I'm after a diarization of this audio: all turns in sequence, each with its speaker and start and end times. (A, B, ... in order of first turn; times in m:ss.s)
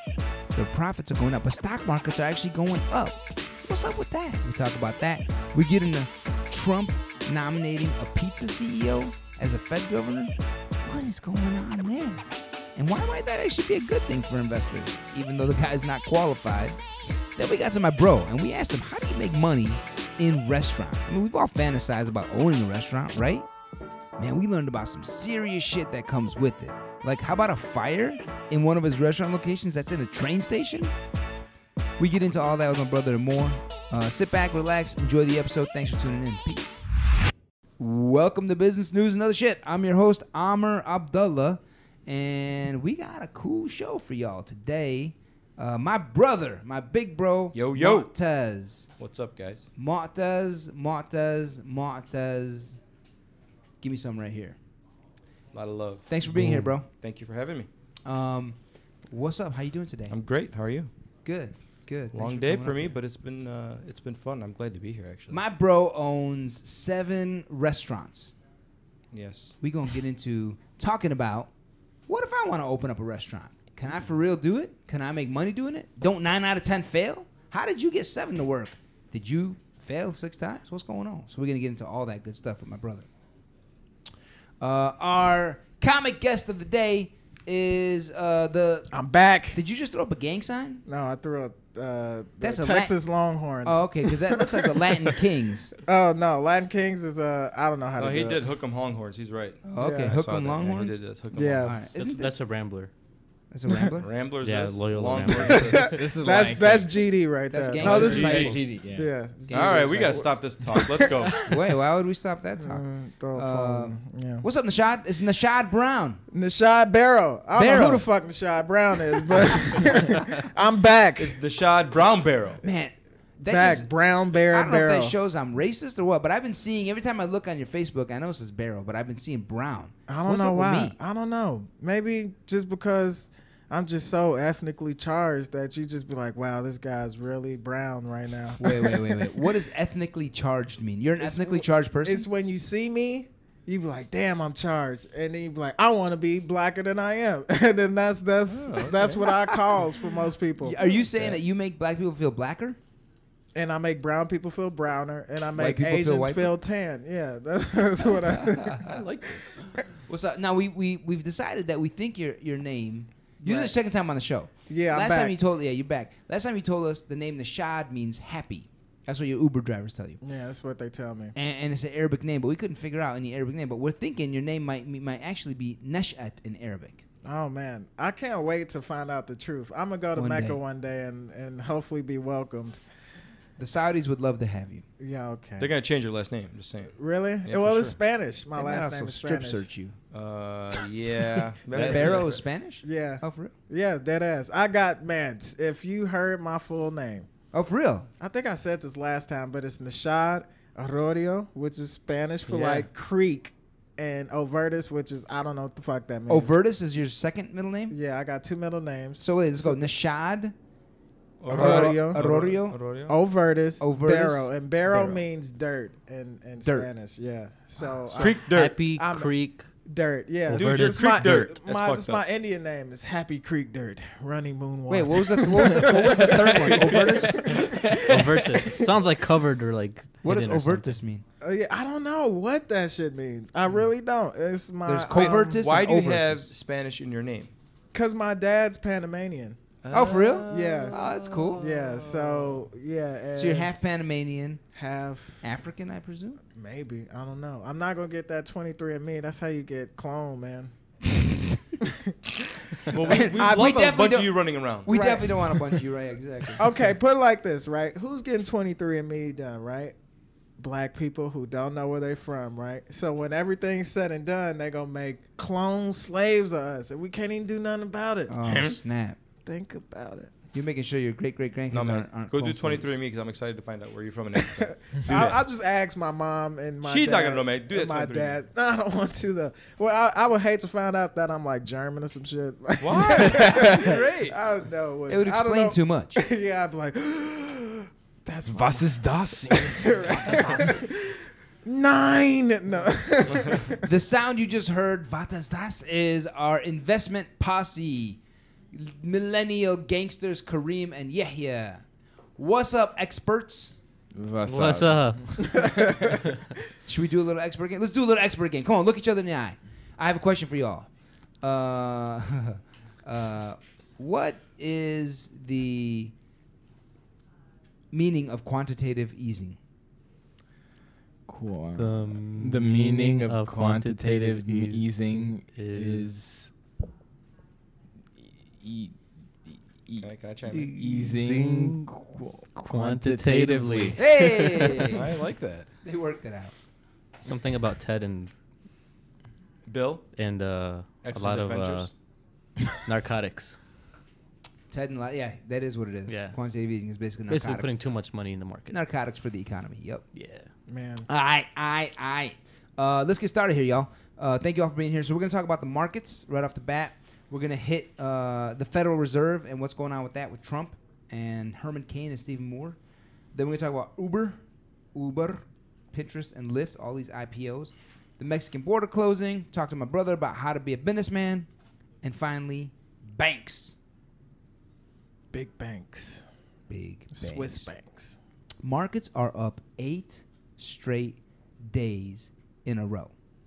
0:00.5-0:16.8 A
0:17.4-0:23.5 A
0:24.2-0:30.9 A
0:32.0-0:36.8 A
0:37.8-0:48.9 A
0:47.5-0:48.1 B
0:49.0-0:49.7 B
0:49.8-0:52.8 A
0:53.8-0:54.6 A
0:55.5-0:57.7 B
0:56.1-0:56.9 A
0:58.0-0:58.6 A
0:59.1-1:00.2 A
1:00.1-1:00.9 B
1:01.2-1:02.9 A
1:02.1-1:05.4 B
1:05.3-1:08.3 A
1:09.1-1:09.5 B
1:09.6-1:11.5 A
1:12.1-1:23.1 A
1:24.6-1:28.9 A
1:28.9-1:29.6 C
1:29.5-1:30.8 A
1:30.8-1:35.2 C
1:32.4-1:32.9 A
1:33.6-1:35.7 A
1:35.8-1:38.4 C
1:38.0-1:42.3 B
1:39.6-1:41.0 A
1:39.8-1:40.2 C
1:41.3-1:41.8 C
1:41.6-1:42.4 A
1:42.0-1:42.9 D
1:43.5-1:44.1 A
1:44.0-1:46.0 B
1:44.4-1:45.9 D
1:45.3-1:51.5 C
1:45.7-1:47.0 E
1:47.5-1:48.6 A
1:47.8-1:48.6 B
1:47.8-1:49.1 E
1:49.5-1:50.2 A
1:49.5-1:51.5 B
1:51.4-1:56.2 A
1:52.6-1:54.4 C
1:56.3-2:01.4 C
1:57.5-1:58.1 A
2:01.2-2:02.6 B
2:02.6-2:11.0 A
2:03.4-2:05.2 C
2:10.1-2:19.4 C
2:18.6-2:22.3 A
2:21.2-2:31.0 C
2:28.5-2:29.8 B
2:30.6-2:32.8 A
2:33.5-2:38.8 C
2:35.6-2:36.5 A
2:38.3-2:39.0 A
2:38.8-2:39.6 B
2:40.1-2:50.2 A
2:43.4-2:43.7 C
2:44.7-2:45.4 C
2:50.2-2:51.3 C
2:51.3-2:57.0 A
2:57.2-3:02.8 C
3:00.1-3:00.6 A
3:03.6-3:04.8 A
3:05.0-3:05.7 C
3:05.6-3:06.9 B
3:07.0-3:09.6 C
3:07.4-3:08.0 B
3:08.5-3:10.0 A
3:10.1-3:12.4 B
3:11.7-3:13.5 A
3:11.8-3:12.2 C
3:12.8-3:17.3 C
3:17.5-3:18.1 A
3:18.2-3:26.5 C
3:22.4-3:22.9 B
3:26.3-3:28.0 A
3:27.9-3:29.9 C
3:29.2-3:30.5 A
3:31.4-3:33.2 B
3:31.5-3:32.2 C
3:31.5-3:32.8 A
3:33.1-3:39.3 C
3:33.8-3:35.2 A
3:36.6-3:36.9 A
3:38.1-3:38.8 B
3:38.2-3:39.6 D
3:39.9-3:48.8 C
3:40.5-3:41.2 D
3:40.5-3:42.2 B
3:44.9-3:47.7 A
3:47.4-3:51.0 D
3:47.6-3:48.1 B
3:50.2-3:51.2 A
3:51.4-3:55.7 C
3:54.8-3:56.5 A
3:55.1-3:57.5 B
3:57.9-3:59.6 C
3:59.8-4:02.6 B
3:59.9-4:01.6 A
4:00.5-4:01.0 C
4:01.6-4:03.7 C
4:03.4-4:04.6 A
4:04.7-4:05.4 C
4:05.4-4:06.4 A
4:06.5-4:10.7 C
4:11.8-4:13.8 C
4:12.9-4:15.1 B
4:13.0-4:16.7 A
4:14.9-4:15.8 C
4:16.5-4:19.9 C
4:20.6-4:28.4 C
4:28.3-4:29.2 A
4:28.4-4:28.8 B
4:29.4-4:30.3 C
4:30.5-4:32.9 A
4:31.7-4:35.4 B
4:34.6-4:53.9 C
4:36.8-4:38.4 B
4:42.8-4:44.4 B
4:45.1-4:46.2 A
4:48.5-4:50.6 E
4:53.8-4:58.2 A
4:58.7-5:01.8 A
5:02.4-5:03.7 A
5:04.1-5:05.6 E
5:04.4-5:06.4 D
5:06.8-5:10.9 A
5:11.4-5:16.1 A
5:17.9-5:19.6 A
5:21.3-5:26.5 E
5:21.8-5:26.1 D
5:28.2-5:29.0 E
5:29.5-5:34.0 E
5:30.0-5:30.8 B
5:30.7-5:31.9 D
5:32.6-5:34.8 D
5:34.0-5:35.1 A
5:34.8-5:35.7 B
5:35.8-5:36.5 A
5:37.2-5:38.3 D
5:39.7-5:40.0 B
5:40.1-5:41.9 D
5:41.0-5:41.9 B
5:42.7-5:43.6 D
5:44.7-5:47.7 A
5:46.1-5:46.3 D
5:47.3-5:48.8 D
5:48.7-5:50.0 A
5:50.1-5:50.5 D
5:50.7-5:51.1 C
5:51.1-6:02.8 A
6:03.3-6:04.4 A
6:04.9-6:11.5 A
6:12.0-6:13.8 A
6:15.3-6:16.2 C
6:16.7-6:17.7 A
6:17.1-6:18.2 C
6:18.6-6:23.1 A